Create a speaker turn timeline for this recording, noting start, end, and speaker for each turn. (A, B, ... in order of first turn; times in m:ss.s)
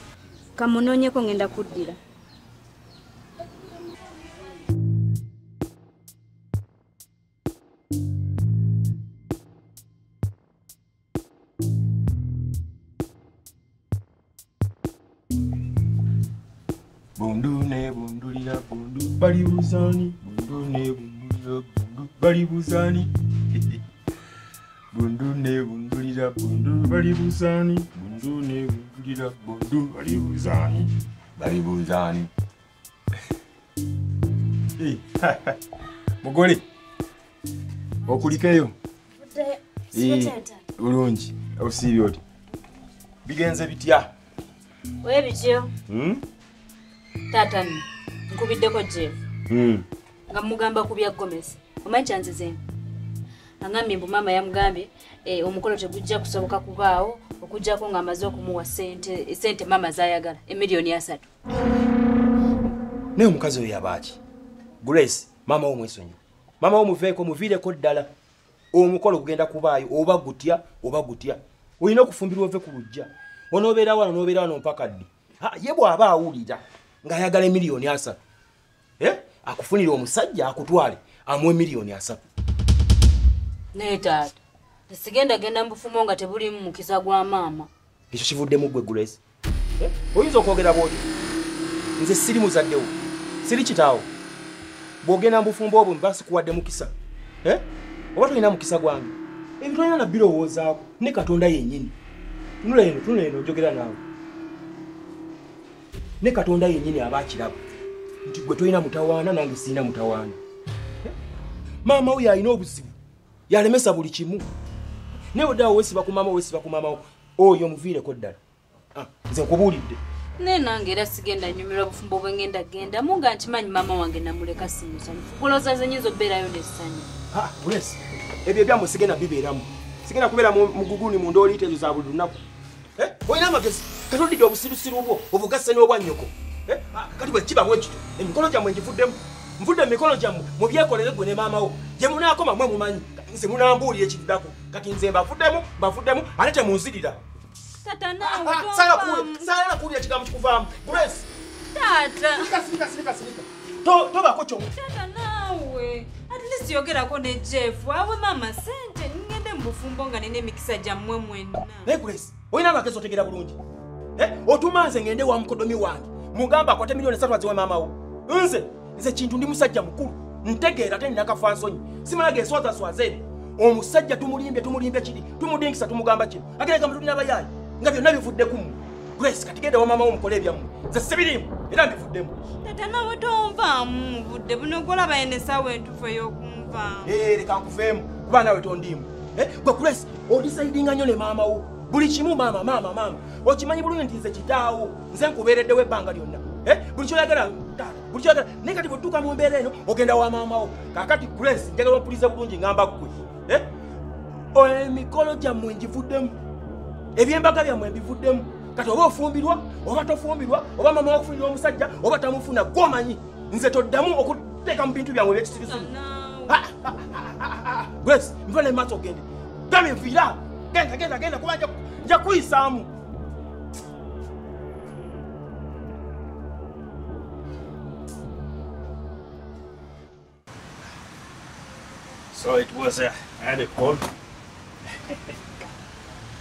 0:00.6-0:02.0 A
0:17.2-0:23.8 B
0:24.9-0:32.3 B
0:34.8-0:35.6 B
0:36.2-0:36.6 B
0:38.1-0:38.7 B
0:39.2-0:40.6 A
0:39.9-0:42.2 B
0:43.2-0:44.1 B
0:45.0-0:45.7 A
0:45.9-0:46.2 B
0:47.3-0:49.2 A
0:49.5-0:49.8 B
0:50.3-0:52.6 A
0:53.6-1:01.3 A
1:03.2-1:04.2 B
1:04.8-1:08.1 B
1:08.7-1:18.2 B
1:19.0-1:22.2 B
1:23.7-1:27.7 A
1:28.1-1:29.2 B
1:29.8-1:31.0 B
1:32.0-1:34.1 B
1:35.0-1:36.9 B
1:38.2-1:42.0 B
1:42.6-1:44.0 B
1:46.2-1:47.6 B
1:48.3-1:50.4 B
1:51.8-1:52.9 B
1:53.5-1:54.5 B
1:55.3-1:58.4 B
1:58.9-2:00.0 B
2:00.4-2:07.1 A
2:07.3-2:12.4 B
2:13.0-2:27.2 B
2:27.8-2:29.5 A
2:28.2-2:31.3 B
2:31.7-2:32.6 A
2:32.3-2:34.7 B
2:34.7-2:41.9 A
2:41.8-2:43.6 B
2:44.2-3:02.4 B
3:02.6-3:07.2 A
3:07.0-3:23.7 B
3:24.5-3:26.4 B
3:27.2-3:35.9 B
3:35.5-3:36.6 A
3:36.5-3:42.9 B
3:52.3-3:54.1 C
3:55.0-3:55.3 C